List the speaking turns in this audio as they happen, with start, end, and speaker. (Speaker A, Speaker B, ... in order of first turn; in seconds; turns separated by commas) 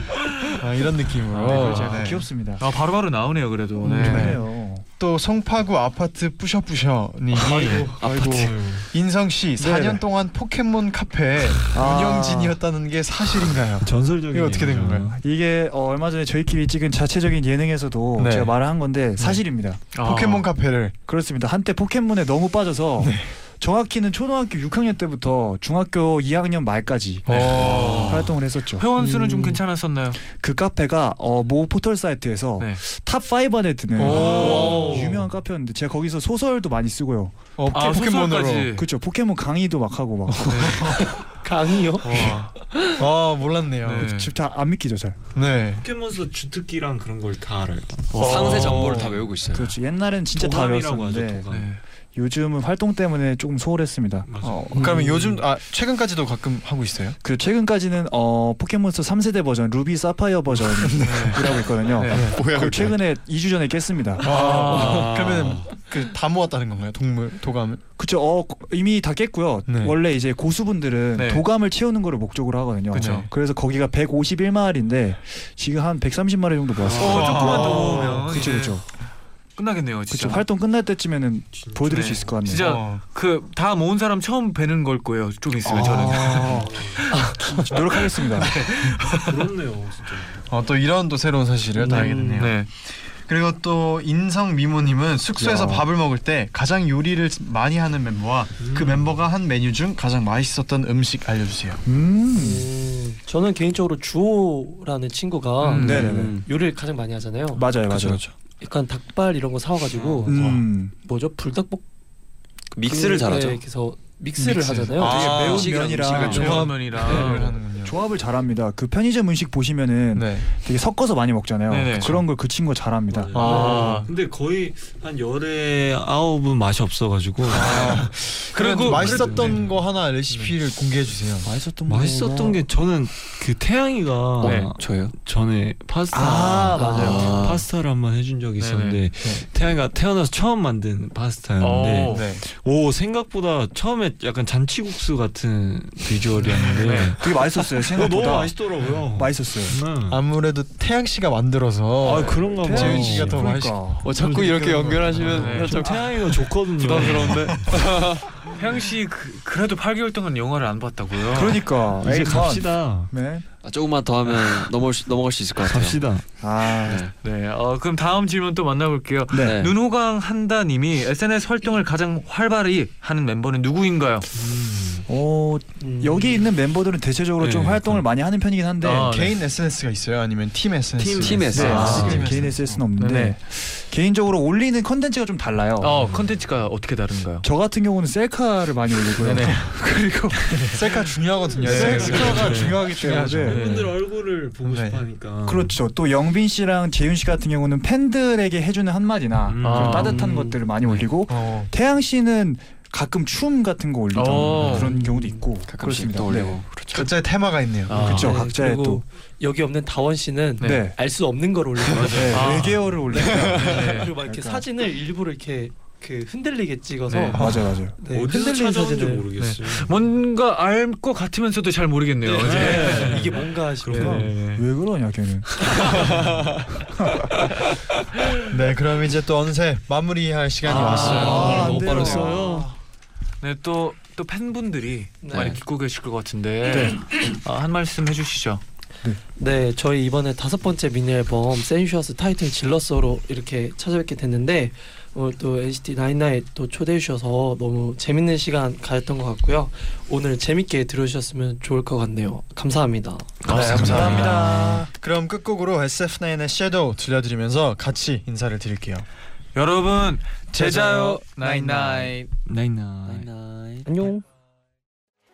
Speaker A: 0.6-2.2, Speaker B: 1.3-4.4, Speaker C: 1.4-2.7, Speaker C: 3.9-4.8, Speaker A: 3.9-4.4, Speaker A: 5.0-7.9, Speaker B: 7.4-7.8, Speaker D: 7.5-7.9, Speaker E: 7.7-8.7, Speaker C: 8.0-8.5, Speaker F: 8.1-8.9, Speaker A: 8.9-15.1, Speaker C: 9.6-10.0, Speaker C: 11.7-12.6, Speaker F: 13.8-15.2, Speaker C: 15.2-19.8, Speaker A: 18.2-18.6, Speaker B: 19.9-20.5, Speaker A: 20.0-20.9, Speaker C: 21.1-29.6, Speaker A: 23.0-23.3, Speaker A: 27.3-28.3, Speaker B: 27.3-30.2, Speaker C: 30.2-37.4, Speaker A: 34.0-34.8, Speaker B: 34.0-35.0, Speaker F: 34.0-35.2, Speaker D: 34.4-35.1, Speaker A: 37.6-38.7, Speaker B: 37.7-38.9, Speaker C: 38.7-40.7, Speaker A: 40.4-41.0, Speaker B: 40.5-41.0, Speaker D: 41.3-43.0, Speaker B: 42.0-42.5, Speaker A: 42.0-44.1, Speaker B: 43.8-44.3, Speaker C: 44.0-45.2, Speaker A: 45.3-45.8, Speaker F: 45.8-49.2, Speaker B: 48.1-49.1, Speaker E: 48.1-49.7, Speaker C: 49.5-51.5, Speaker F: 50.4-51.7, Speaker B: 51.5-51.8, Speaker C: 52.1-55.3, Speaker F: 54.3-55.1, Speaker A: 54.4-57.2, Speaker C: 57.2-64.5, Speaker A: 60.8-63.0, Speaker B: 61.0-62.3, Speaker A: 64.2-67.8, Speaker B: 64.3-65.1, Speaker F: 64.3-65.8, Speaker C: 68.0-78.8, Speaker A: 69.7-70.0, Speaker B: 71.1-71.4, Speaker B: 72.9-73.3, Speaker A: 72.9-73.3, Speaker F: 76.8-78.3, Speaker A: 76.9-78.3, Speaker B: 76.9-78.8, Speaker B: 79.6-80.4, Speaker C: 80.1-82.7, Speaker F: 81.5-82.5, Speaker B: 81.9-89.5, Speaker A: 82.5-83.0, Speaker C: 85.6-88.5, Speaker F: 86.5-87.0, Speaker F: 89.2-90.5, Speaker A: 90.5-101.8, Speaker D: 91.8-92.5, Speaker B: 91.8-92.7, Speaker C: 95.4-95.9, Speaker F: 98.6-99.2, Speaker C: 101.8-102.7, Speaker D: 102.3-107.7, Speaker B: 105.6-106.1, Speaker C: 105.8-106.4, Speaker E: 105.8-106.5, Speaker C: 107.5-108.2, Speaker E: 107.9-108.3, Speaker D: 108.6-111.8, Speaker C: 110.2-110.9, Speaker E: 112.7-113.6, Speaker D: 112.8-115.3, Speaker A: 114.9-118.0, Speaker C: 115.0-123.3, Speaker E: 115.2-116.7, Speaker B: 116.1-117.5, Speaker D: 117.1-117.4, Speaker A: 120.1-120.5, Speaker B: 121.7-122.1, Speaker F: 123.1-128.1, Speaker A: 123.3-124.1, Speaker B: 123.4-124.1, Speaker D: 123.4-123.9, Speaker A: 127.5-131.5, Speaker C: 127.7-128.1, Speaker B: 128.5-129.7, Speaker F: 128.8-129.7, Speaker C: 131.4-132.6, Speaker F: 131.8-150.2, Speaker B: 134.4-134.7, Speaker E: 134.4-135.2, Speaker C: 136.1-137.5, Speaker D: 136.7-137.2, Speaker E: 136.8-137.7, Speaker B: 138.6-139.0, Speaker B: 141.6-142.2, Speaker A: 142.1-142.4, Speaker B: 146.7-147.1, Speaker C: 147.2-149.8, Speaker A: 150.1-153.8, Speaker F: 152.0-153.5, Speaker C: 152.6-154.1, Speaker E: 154.0-158.2, Speaker F: 154.1-157.7, Speaker B: 155.3-155.8, Speaker A: 156.8-157.9, Speaker B: 158.5-161.6, Speaker C: 161.3-163.4, Speaker F: 162.0-163.1, Speaker E: 163.6-166.0, Speaker F: 165.6-166.2, Speaker C: 166.4-167.0, Speaker E: 166.8-167.1, Speaker B: 167.2-174.3, Speaker C: 169.3-169.6, Speaker E: 169.3-169.7, Speaker F: 174.3-175.1, Speaker C: 175.1-179.1, Speaker D: 175.8-176.5, Speaker F: 177.4-178.0, Speaker B: 178.8-179.4, Speaker A: 179.1-182.8, Speaker F: 181.0-182.6, Speaker E: 181.2-182.3, Speaker C: 181.5-186.1, Speaker B: 181.7-182.2, Speaker B: 183.0-183.3, Speaker B: 185.8-187.5, Speaker F: 186.0-186.3, Speaker C: 187.4-190.7, Speaker B: 189.2-189.6, Speaker A: 190.6-193.6, Speaker C: 191.6-193.6, Speaker F: 191.6-195.7, Speaker B: 191.8-192.4, Speaker B: 193.4-193.9, Speaker A: 194.6-195.0, Speaker C: 195.4-206.6, Speaker F: 199.5-200.2, Speaker B: 199.6-200.2, Speaker D: 200.0-200.6, Speaker A: 201.3-201.7, Speaker B: 204.1-204.9, Speaker F: 204.6-204.9, Speaker D: 204.9-205.5, Speaker E: 205.7-207.1, Speaker A: 206.9-207.9, Speaker B: 207.9-208.4, Speaker D: 207.9-217.4, Speaker C: 207.9-209.0, Speaker B: 210.6-210.9, Speaker C: 210.6-210.9, Speaker C: 212.1-214.6, Speaker B: 212.2-212.8, Speaker E: 213.2-213.8, Speaker B: 213.6-214.1, Speaker B: 217.1-217.4, Speaker A: 217.3-217.7, Speaker C: 217.3-217.9, Speaker D: 218.0-219.3, Speaker F: 218.0-220.0, Speaker B: 219.4-224.5, Speaker D: 222.2-224.3, Speaker F: 222.4-224.6, Speaker C: 223.9-226.2, Speaker C: 227.0-227.3, Speaker A: 228.5-232.2, Speaker D: 230.7-231.9, Speaker F: 230.7-232.7, Speaker C: 231.0-232.8, Speaker E: 231.7-232.2, Speaker B: 233.4-238.6, Speaker D: 235.2-235.6, Speaker E: 235.3-235.6, Speaker C: 236.6-237.0, Speaker D: 239.4-253.4, Speaker B: 253.4-254.3, Speaker C: 253.5-254.9, Speaker A: 253.5-259.1, Speaker F: 253.6-254.7, Speaker B: 259.5-262.3, Speaker F: 262.5-263.3, Speaker E: 263.0-264.1, Speaker D: 263.8-264.2